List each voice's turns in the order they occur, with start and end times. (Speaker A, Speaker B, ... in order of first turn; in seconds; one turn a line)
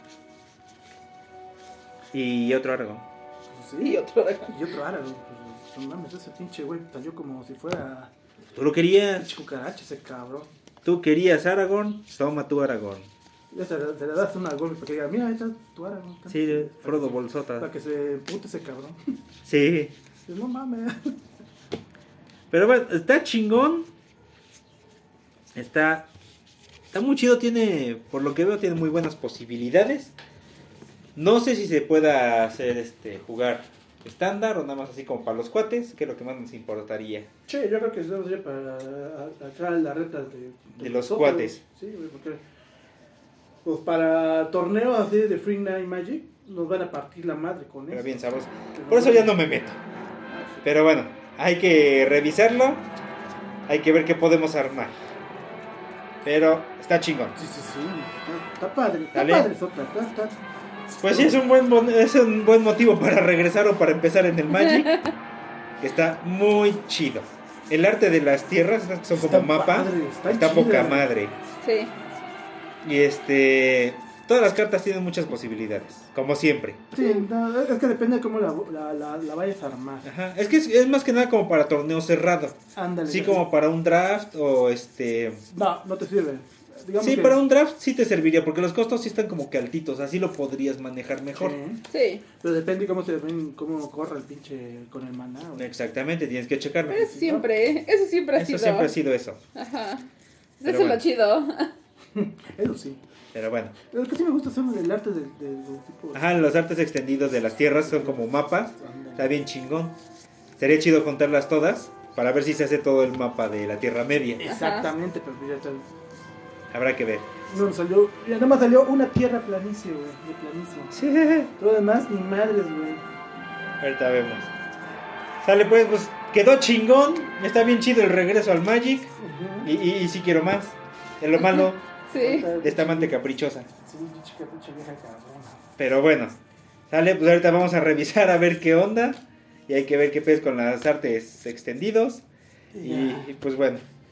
Speaker A: 2.1-3.0
Speaker B: 3.5-8.1
Speaker C: 3.8-4.6
Speaker A: 8.6-9.3
Speaker B: 9.2-10.5
Speaker A: 10.8-13.1
Speaker B: 13.5-19.1
Speaker A: 16.3-17.7
Speaker A: 19.4-19.9
Speaker B: 20.2-21.1
Speaker A: 22.5-23.9
Speaker A: 25.5-26.1
Speaker A: 26.9-30.1
Speaker A: 31.2-37.3
Speaker B: 37.5-42.4
Speaker A: 40.8-41.6
Speaker B: 43.6-49.7
Speaker A: 47.9-49.8
Speaker B: 50.3-50.7
Speaker A: 50.6-52.9
Speaker A: 53.7-55.0
Speaker A: 56.2-57.4
Speaker B: 57.4-60.4
Speaker A: 59.1-59.5
Speaker A: 61.0-65.0
Speaker B: 61.1-61.4
Speaker C: 64.5-65.1
Speaker A: 65.8-71.3
Speaker B: 69.1-71.1
Speaker C: 71.6-71.9
Speaker A: 72.8-76.8
Speaker B: 76.9-80.1
Speaker A: 80.0-85.4
Speaker B: 82.8-83.5
Speaker B: 85.5-87.4
Speaker A: 87.0-91.6
Speaker B: 91.3-91.8
Speaker C: 91.9-92.2
Speaker B: 92.4-95.7
Speaker A: 95.6-97.1
Speaker B: 96.9-97.5
Speaker C: 96.9-98.9
Speaker A: 98.4-99.4
Speaker C: 99.5-100.1
Speaker C: 100.6-101.7
Speaker A: 100.6-101.0
Speaker B: 102.2-103.0
Speaker A: 103.3-103.8
Speaker B: 103.9-106.3
Speaker A: 106.1-110.0
Speaker B: 107.9-109.4
Speaker A: 110.6-114.4
Speaker B: 114.4-115.9
Speaker C: 114.4-114.9
Speaker A: 116.7-117.3
Speaker B: 117.5-121.0
Speaker A: 120.9-121.5
Speaker B: 121.6-123.0
Speaker A: 123.8-124.5
Speaker A: 125.4-129.1
Speaker B: 129.2-129.7
Speaker A: 129.6-131.8
Speaker C: 131.4-132.5
Speaker B: 132.1-133.2
Speaker A: 132.6-133.7
Speaker B: 133.8-135.6
Speaker A: 135.8-136.4
Speaker A: 136.9-142.2
Speaker B: 142.7-143.3
Speaker A: 142.8-143.8